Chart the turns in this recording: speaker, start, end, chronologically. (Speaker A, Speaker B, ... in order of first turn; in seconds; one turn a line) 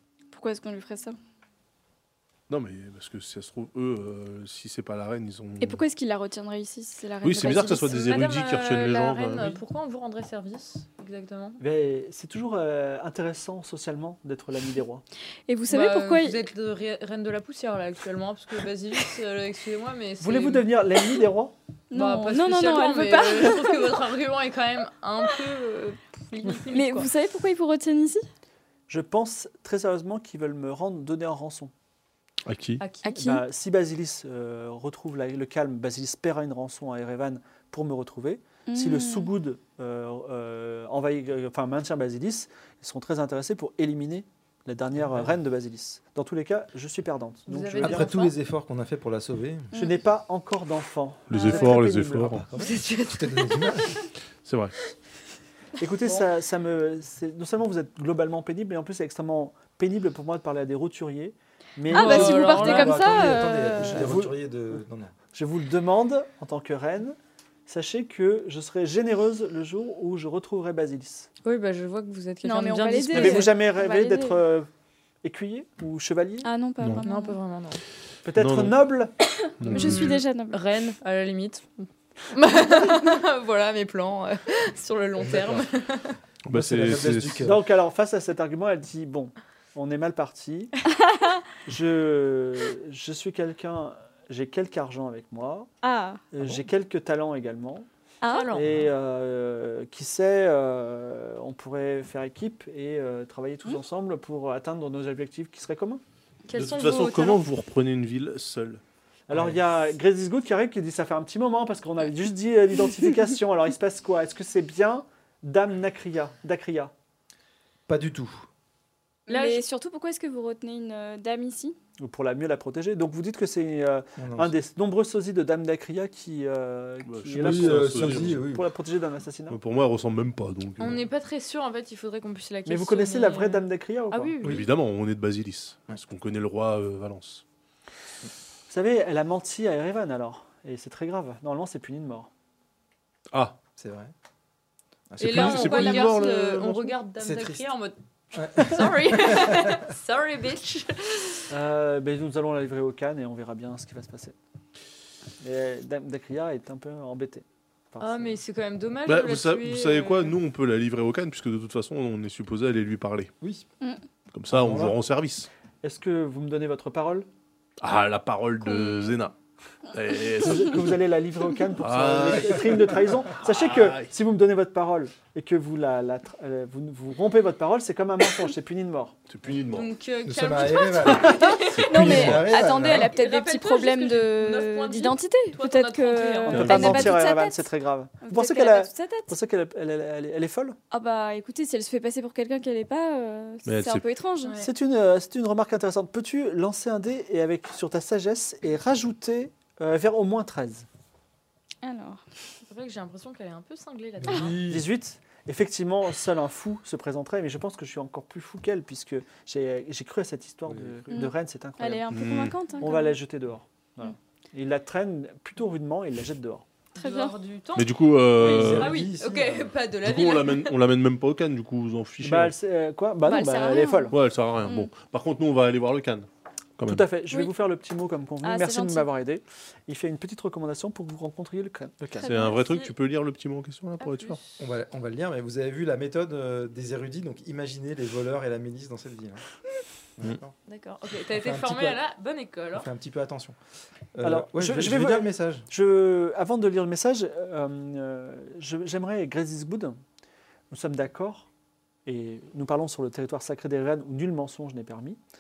Speaker A: 0.3-1.2
Speaker B: 2.5-5.8
Speaker A: 5.6-8.2
Speaker B: 7.2-9.6
Speaker C: 7.5-11.6
Speaker D: 11.6-15.1
Speaker A: 15.5-16.4
Speaker C: 15.7-20.7
Speaker D: 20.2-21.6
Speaker A: 21.9-24.0
Speaker C: 21.9-27.1
Speaker A: 26.6-28.3
Speaker D: 28.9-31.7
Speaker B: 32.5-32.8
Speaker C: 32.8-33.2
Speaker A: 33.1-33.4
Speaker D: 33.1-48.1
Speaker A: 38.7-39.3
Speaker E: 45.0-45.3
Speaker C: 47.5-48.4
Speaker E: 47.8-49.7
Speaker A: 49.7-50.0
Speaker D: 49.7-52.4
Speaker B: 51.3-52.5
Speaker C: 51.4-51.7
Speaker E: 52.4-54.0
Speaker C: 52.6-54.0
Speaker B: 54.4-54.7
Speaker D: 55.8-62.9
Speaker A: 61.9-64.1
Speaker C: 61.9-63.0
Speaker E: 62.4-65.1
Speaker D: 63.8-64.8
Speaker D: 65.3-71.3
Speaker C: 71.4-73.6
Speaker A: 72.4-74.4
Speaker D: 73.1-74.7
Speaker D: 75.2-76.5
Speaker A: 76.4-77.4
Speaker C: 77.0-77.8
Speaker D: 78.2-79.1
Speaker B: 78.3-78.8
Speaker A: 79.4-80.6
Speaker B: 79.6-80.2
Speaker C: 79.7-86.2
Speaker E: 85.2-85.7
Speaker B: 86.5-87.5
Speaker E: 86.5-87.6
Speaker D: 87.4-90.7
Speaker A: 91.0-91.4
Speaker D: 91.6-95.7
Speaker A: 95.8-96.2
Speaker D: 96.3-97.9
Speaker A: 98.2-98.6
Speaker C: 98.3-98.7
Speaker D: 98.5-106.0
Speaker C: 106.5-107.4
Speaker B: 106.5-108.8
Speaker D: 109.3-116.9
Speaker E: 109.3-109.6
Speaker E: 117.9-118.5
Speaker A: 119.3-121.8
Speaker C: 119.3-119.7
Speaker D: 122.0-129.6
Speaker E: 124.2-124.5
Speaker B: 127.0-128.4
Speaker E: 127.4-128.7
Speaker B: 129.5-131.0
Speaker C: 130.8-134.6
Speaker D: 132.7-134.3
Speaker B: 134.4-137.4
Speaker E: 134.4-134.7
Speaker D: 138.7-142.3
Speaker B: 143.3-143.6
Speaker E: 143.8-144.1
Speaker E: 145.1-146.0
Speaker B: 145.2-146.9
Speaker C: 145.2-151.5
Speaker E: 147.2-147.7
Speaker E: 148.3-149.9
Speaker D: 151.5-154.4
Speaker D: 155.4-158.4
Speaker C: 158.0-160.4
Speaker B: 159.1-163.3
Speaker E: 163.4-163.7
Speaker B: 164.3-165.5
Speaker E: 164.5-165.0
Speaker D: 165.8-167.3
Speaker B: 167.8-169.3
Speaker B: 169.9-170.8
Speaker D: 170.4-179.2
Speaker B: 171.8-174.1
Speaker E: 172.4-172.8
Speaker B: 179.3-179.9
Speaker C: 179.6-181.8
Speaker E: 180.2-183.2
Speaker A: 181.5-187.7
Speaker B: 181.7-182.6
Speaker C: 182.5-187.0
Speaker D: 186.5-190.8
Speaker B: 186.5-187.2
Speaker A: 188.2-189.3
Speaker A: 190.9-194.7
Speaker B: 193.7-194.1
Speaker C: 194.4-194.7
Speaker D: 194.6-200.9
Speaker A: 201.8-202.2
Speaker C: 202.7-204.6
Speaker E: 204.2-204.8
Speaker D: 204.7-212.1
Speaker E: 210.7-211.0
Speaker A: 211.1-213.2
Speaker B: 212.1-212.6
Speaker D: 212.8-216.7
Speaker A: 216.9-217.4
Speaker C: 217.0-217.9
Speaker B: 217.8-219.0
Speaker E: 218.4-219.7
Speaker C: 218.5-220.8
Speaker B: 220.0-222.5
Speaker D: 222.2-224.1
Speaker A: 223.2-224.9
Speaker B: 224.1-226.3
Speaker B: 226.8-227.1
Speaker D: 226.9-232.3
Speaker A: 228.4-229.1
Speaker B: 232.2-234.4
Speaker A: 232.2-232.8
Speaker C: 232.4-232.9
Speaker C: 234.0-234.5
Speaker E: 234.6-239.4
Speaker E: 240.2-240.5
Speaker C: 240.7-242.9
Speaker E: 241.3-242.0
Speaker E: 242.7-243.6
Speaker E: 244.2-245.7
Speaker D: 244.2-250.0
Speaker D: 250.7-251.5
Speaker D: 252.1-255.2